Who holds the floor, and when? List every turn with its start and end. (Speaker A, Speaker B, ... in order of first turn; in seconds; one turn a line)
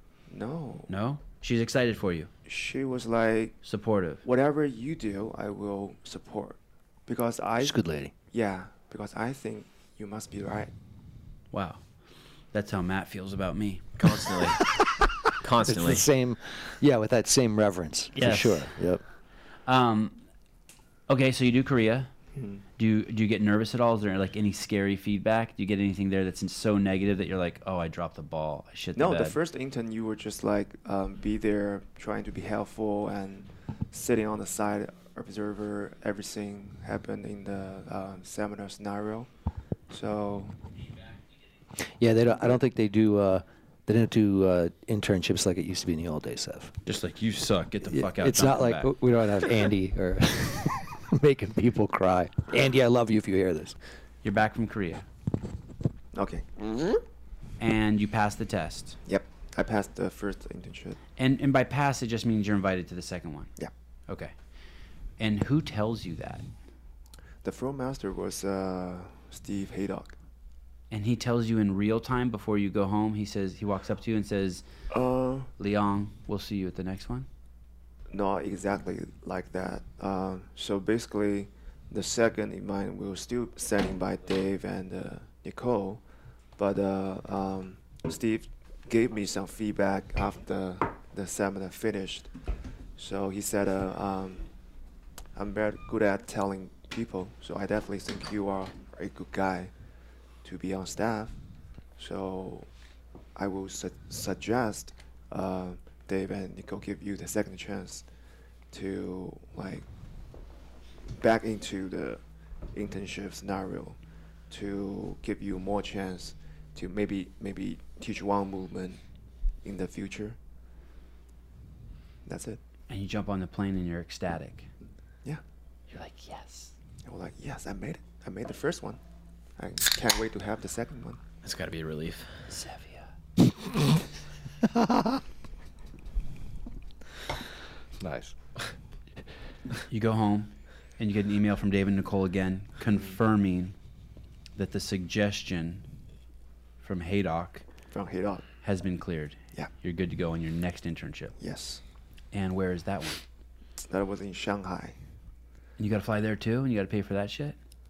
Speaker A: 0.3-0.9
Speaker B: 0.9-2.3
Speaker A: 2.5-3.6
Speaker B: 3.6-4.2
Speaker A: 4.2-7.8
Speaker C: 7.6-8.1
Speaker A: 8.3-10.7
Speaker B: 11.5-11.8
Speaker B: 12.5-13.9
Speaker D: 14.0-14.7
Speaker C: 14.6-15.1
Speaker D: 15.4-16.1
Speaker C: 15.6-19.0
Speaker B: 18.1-18.7
Speaker B: 19.7-20.2
Speaker B: 21.1-22.1
Speaker A: 22.4-22.6
Speaker B: 22.8-29.4
Speaker A: 28.9-39.3
Speaker A: 39.9-40.5
Speaker C: 41.8-46.7
Speaker B: 46.9-48.9
Speaker C: 47.9-53.8
Speaker B: 54.2-55.0
Speaker A: 56.1-56.5
Speaker B: 57.6-59.0
Speaker A: 59.1-61.0
Speaker B: 61.2-63.5
Speaker B: 64.1-64.3
Speaker B: 65.2-66.5
Speaker A: 67.4-70.2
Speaker B: 70.9-74.6
Speaker A: 74.9-75.5
Speaker B: 75.6-77.3
Speaker A: 78.1-86.0
Speaker A: 86.6-92.3
Speaker A: 93.0-94.5
Speaker A: 95.3-99.7
Speaker A: 100.4-101.4
Speaker A: 102.0-102.7
Speaker A: 103.3-108.1
Speaker A: 108.7-109.9
Speaker A: 111.2-112.2
Speaker A: 112.7-114.0
Speaker A: 114.5-119.0
Speaker A: 119.6-120.4
Speaker A: 122.2-122.6
Speaker B: 122.9-124.7
Speaker B: 125.9-126.7
Speaker A: 127.0-129.0
Speaker A: 129.6-131.2
Speaker D: 131.4-132.3
Speaker B: 132.5-133.1
Speaker C: 138.0-138.3
Speaker B: 139.9-143.8
Speaker B: 144.6-145.8
Speaker B: 146.8-147.7
Speaker A: 147.9-148.5
Speaker B: 148.6-151.3
Speaker A: 151.4-151.8
Speaker B: 152.3-153.2
Speaker A: 153.8-155.0
Speaker B: 155.8-157.6